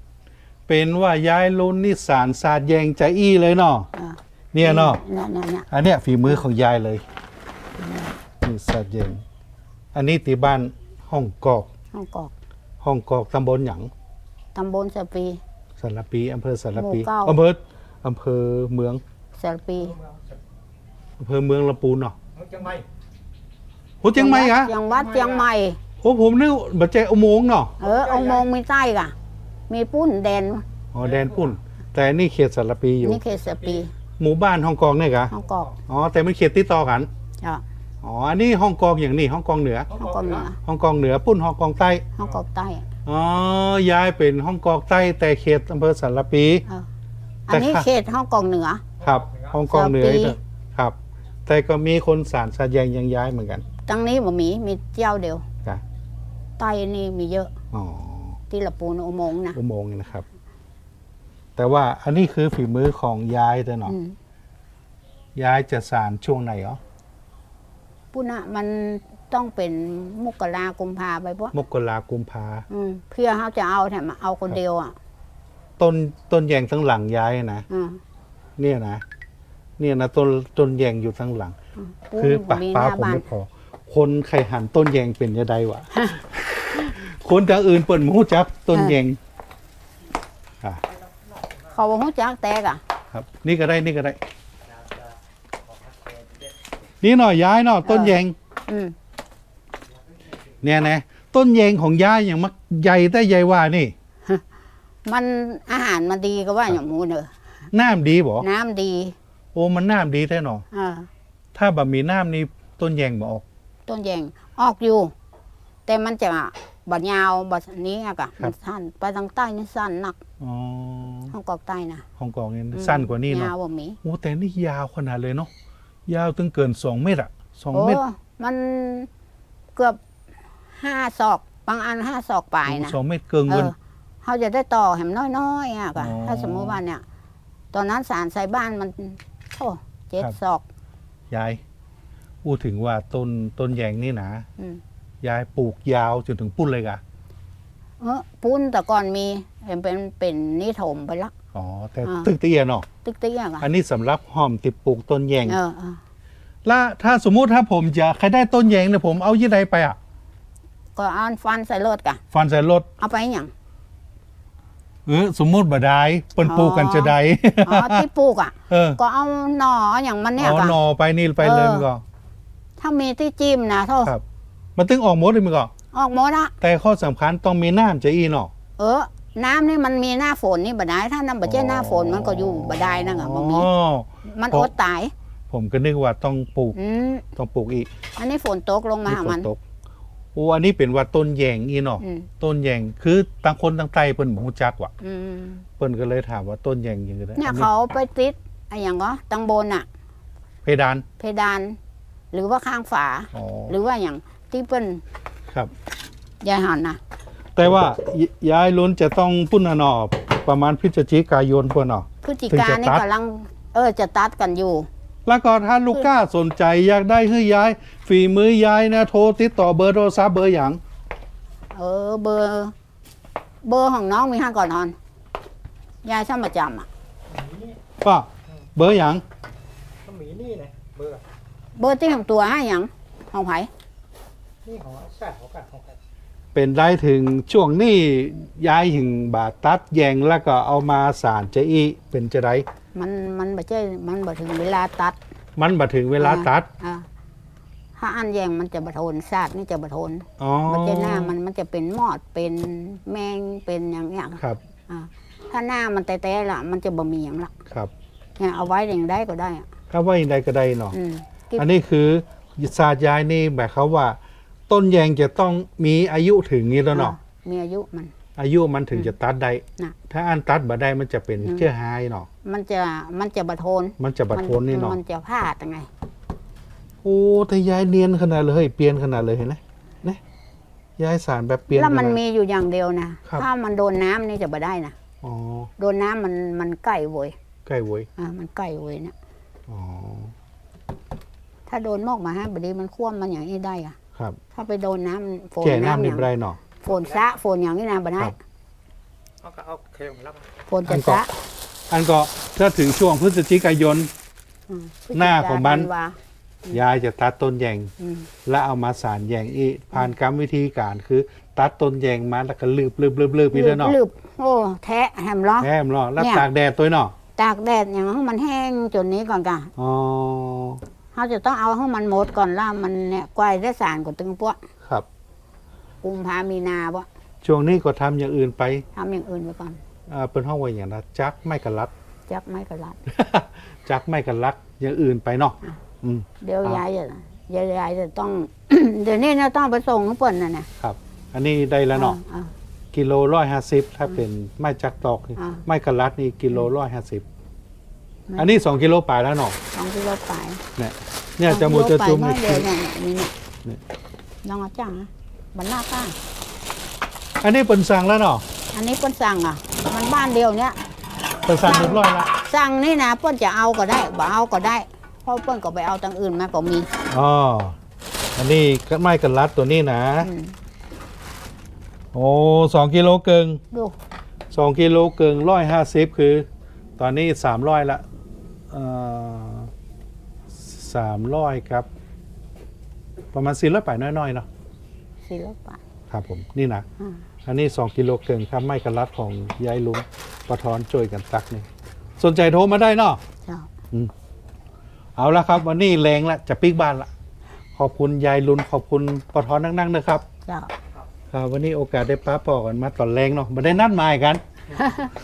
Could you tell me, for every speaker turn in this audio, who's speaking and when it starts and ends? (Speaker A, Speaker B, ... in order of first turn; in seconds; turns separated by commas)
Speaker A: 0.7-3.9, Speaker B: 3.9-5.7, Speaker A: 4.5-5.0, Speaker A: 5.7-7.0, Speaker B: 7.8-8.1, Speaker A: 8.4-9.2, Speaker A: 9.9-11.7, Speaker B: 11.9-12.3, Speaker A: 12.8-13.9, Speaker B: 14.5-15.4, Speaker A: 15.8-19.0, Speaker B: 16.7-17.4, Speaker B: 19.4-20.0, Speaker A: 21.2-22.1, Speaker C: 22.4-22.8, Speaker A: 24.0-24.7, Speaker B: 24.1-25.8, Speaker A: 26.0-27.8, Speaker B: 27.8-29.1, Speaker B: 29.7-30.6, Speaker A: 30.9-33.2, Speaker B: 33.0-33.9, Speaker A: 34.2-37.1, Speaker B: 35.3-35.8, Speaker A: 38.0-40.0, Speaker B: 39.9-40.6, Speaker A: 40.6-42.0, Speaker B: 42.2-42.9, Speaker A: 43.0-46.6, Speaker B: 47.5-48.9, Speaker A: 47.5-47.9, Speaker A: 49.0-53.6, Speaker B: 49.6-50.4, Speaker B: 53.9-55.4, Speaker B: 56.6-57.5, Speaker A: 57.7-58.4, Speaker B: 58.5-59.6, Speaker A: 59.5-60.2, Speaker A: 61.6-63.9, Speaker B: 63.9-64.2, Speaker A: 65.3-66.8, Speaker B: 68.1-71.5, Speaker A: 71.5-72.7, Speaker B: 72.7-74.9, Speaker A: 75.8-77.7, Speaker B: 77.7-78.0, Speaker A: 78.6-79.0, Speaker A: 79.8-81.5, Speaker B: 81.8-83.2, Speaker A: 82.2-89.2, Speaker B: 91.7-92.8, Speaker A: 93.1-94.2, Speaker A: 97.0-98.3, Speaker B: 97.8-98.2, Speaker B: 98.7-98.9, Speaker A: 100.6-103.9, Speaker B: 105.0-107.3, Speaker A: 107.7-108.5, Speaker B: 108.4-109.2, Speaker A: 109.5-110.6, Speaker B: 110.7-111.1, Speaker A: 111.5-113.4, Speaker B: 113.9-115.1, Speaker B: 115.9-120.2, Speaker A: 120.4-121.3, Speaker B: 121.3-122.0, Speaker A: 122.2-125.5, Speaker B: 122.7-124.0, Speaker A: 126.0-128.0, Speaker B: 127.7-129.1, Speaker B: 130.8-132.9, Speaker A: 132.7-133.7, Speaker B: 133.5-137.0, Speaker A: 135.9-136.8, Speaker B: 137.7-140.6, Speaker A: 141.3-141.6, Speaker A: 142.4-144.4, Speaker A: 145.2-147.0, Speaker B: 148.0-151.3, Speaker A: 151.5-152.8, Speaker B: 152.0-152.3, Speaker B: 153.0-153.7, Speaker A: 153.6-155.6, Speaker B: 155.4-156.0, Speaker A: 156.6-160.0, Speaker B: 160.9-162.2, Speaker A: 162.3-162.9, Speaker B: 163.0-163.5, Speaker A: 165.1-168.0, Speaker B: 166.4-170.8, Speaker A: 168.7-169.0, Speaker A: 170.4-172.0, Speaker B: 171.4-171.8, Speaker B: 172.8-174.1, Speaker A: 174.8-175.7, Speaker B: 175.9-176.5, Speaker A: 176.6-178.5, Speaker B: 178.8-183.7, Speaker A: 181.4-184.7, Speaker B: 184.3-185.1, Speaker A: 185.5-186.8, Speaker B: 186.7-187.2, Speaker A: 187.3-187.9, Speaker B: 188.2-189.5, Speaker A: 189.1-189.6, Speaker A: 190.3-194.9, Speaker B: 192.0-192.3, Speaker B: 195.0-195.6, Speaker A: 195.8-197.7, Speaker B: 197.4-199.8, Speaker A: 200.6-201.0, Speaker B: 201.2-201.8, Speaker B: 202.3-205.0, Speaker A: 203.3-203.7, Speaker B: 206.4-207.0, Speaker A: 207.6-213.0, Speaker B: 212.2-214.9, Speaker A: 215.2-220.8, Speaker B: 221.7-222.7, Speaker B: 223.6-224.9, Speaker B: 226.0-226.9, Speaker A: 228.0-229.2, Speaker C: 230.0-231.2, Speaker B: 231.8-233.7, Speaker C: 234.7-235.9, Speaker A: 236.5-242.7, Speaker B: 242.9-245.2, Speaker A: 245.6-246.7, Speaker B: 246.2-247.1, Speaker B: 248.0-257.5, Speaker A: 250.4-251.3, Speaker B: 258.4-259.7, Speaker A: 259.9-260.9, Speaker B: 260.9-261.6, Speaker A: 261.6-264.2, Speaker A: 264.7-267.1, Speaker B: 266.9-268.1, Speaker A: 268.4-272.3, Speaker B: 272.4-275.9, Speaker A: 274.0-275.0, Speaker A: 277.0-280.2, Speaker A: 281.0-282.2, Speaker B: 281.7-284.9, Speaker A: 285.2-285.7, Speaker B: 285.8-287.3, Speaker A: 287.6-288.1, Speaker B: 288.2-289.1, Speaker A: 289.7-290.3, Speaker B: 291.7-293.9, Speaker B: 294.5-296.3, Speaker A: 295.6-296.6, Speaker B: 296.8-298.4, Speaker C: 299.4-300.4, Speaker B: 300.7-301.3, Speaker A: 300.9-301.2, Speaker A: 301.9-304.1, Speaker B: 304.7-306.8, Speaker A: 305.1-305.9, Speaker A: 306.7-307.9, Speaker B: 308.0-308.3, Speaker A: 308.4-314.0, Speaker B: 313.5-316.4, Speaker A: 315.6-317.1, Speaker B: 317.4-319.7, Speaker A: 319.8-320.8, Speaker B: 321.1-324.6, Speaker B: 326.0-327.1, Speaker A: 327.4-328.9, Speaker B: 328.9-329.8, Speaker A: 330.1-331.9, Speaker B: 332.3-333.0, Speaker A: 333.1-336.8, Speaker B: 336.4-340.7, Speaker A: 340.8-342.2, Speaker B: 341.9-342.5, Speaker A: 342.9-347.2, Speaker B: 345.4-345.6, Speaker A: 348.4-349.6, Speaker B: 349.7-350.6, Speaker A: 350.8-352.7, Speaker B: 351.5-353.3, Speaker B: 354.4-356.1, Speaker A: 357.4-358.4, Speaker B: 358.7-360.8, Speaker A: 361.4-362.3, Speaker B: 361.6-366.9, Speaker A: 367.1-367.7, Speaker A: 368.4-370.3, Speaker B: 370.2-370.5, Speaker A: 372.1-373.6, Speaker B: 373.7-373.9, Speaker A: 374.5-376.4, Speaker A: 377.0-378.0, Speaker A: 378.7-379.7, Speaker A: 380.5-381.9, Speaker A: 383.3-384.4, Speaker B: 385.2-385.8, Speaker A: 386.1-386.9, Speaker A: 387.4-391.7, Speaker A: 392.2-393.2, Speaker A: 395.2-397.1, Speaker A: 397.8-400.2, Speaker B: 400.4-400.7, Speaker A: 401.3-404.4, Speaker B: 404.7-405.1